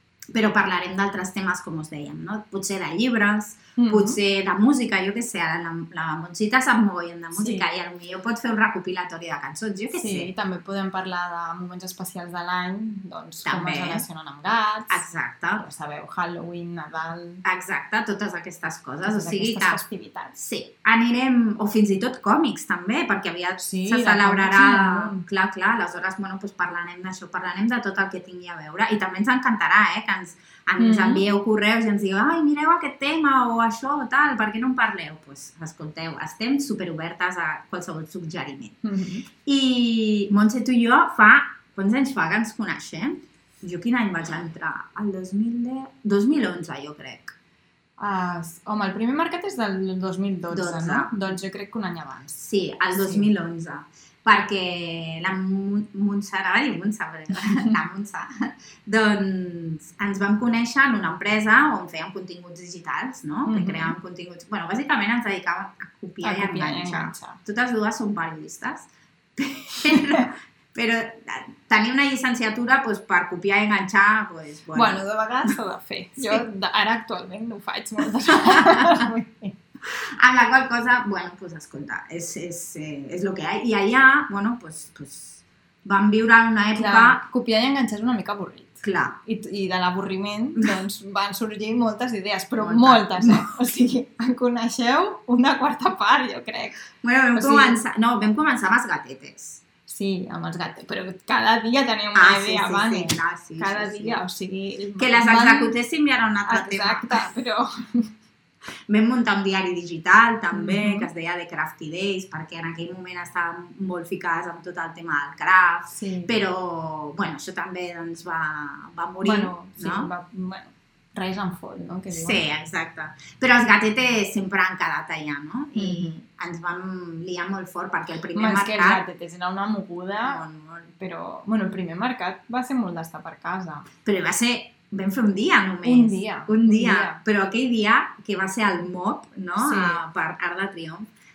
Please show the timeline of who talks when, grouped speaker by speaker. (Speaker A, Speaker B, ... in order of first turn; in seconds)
Speaker A: 0.3-10.3, 13.4-14.1, 14.9-15.6, 17.4-19.8, 20.4-38.8, 39.4-47.4, 50.5-51.1, 52.4-75.5, 76.2-76.4, 78.3-79.0, 79.9-87.2, 88.8-89.2, 92.6-93.5, 97.0-99.6, 102.1-104.2, 105.0-107.3, 108.9-120.1, 122.1-129.0, 130.2-130.9, 134.0-141.1
Speaker B: 3.8-4.2, 7.3-7.6, 9.9-15.0, 15.6-17.4, 19.0-20.4, 23.6-25.2, 30.8-31.2, 38.8-39.2, 48.0-52.4, 52.9-53.3, 63.5-63.9, 66.2-67.4, 69.8-70.2, 74.7-79.6, 86.8-96.8, 97.3-97.8, 99.9-105.7, 106.5-108.1, 110.5-111.1, 115.9-116.3, 119.2-122.4, 125.7-126.2, 128.3-130.4, 131.0-133.9, 135.8-137.2, 139.6-140.0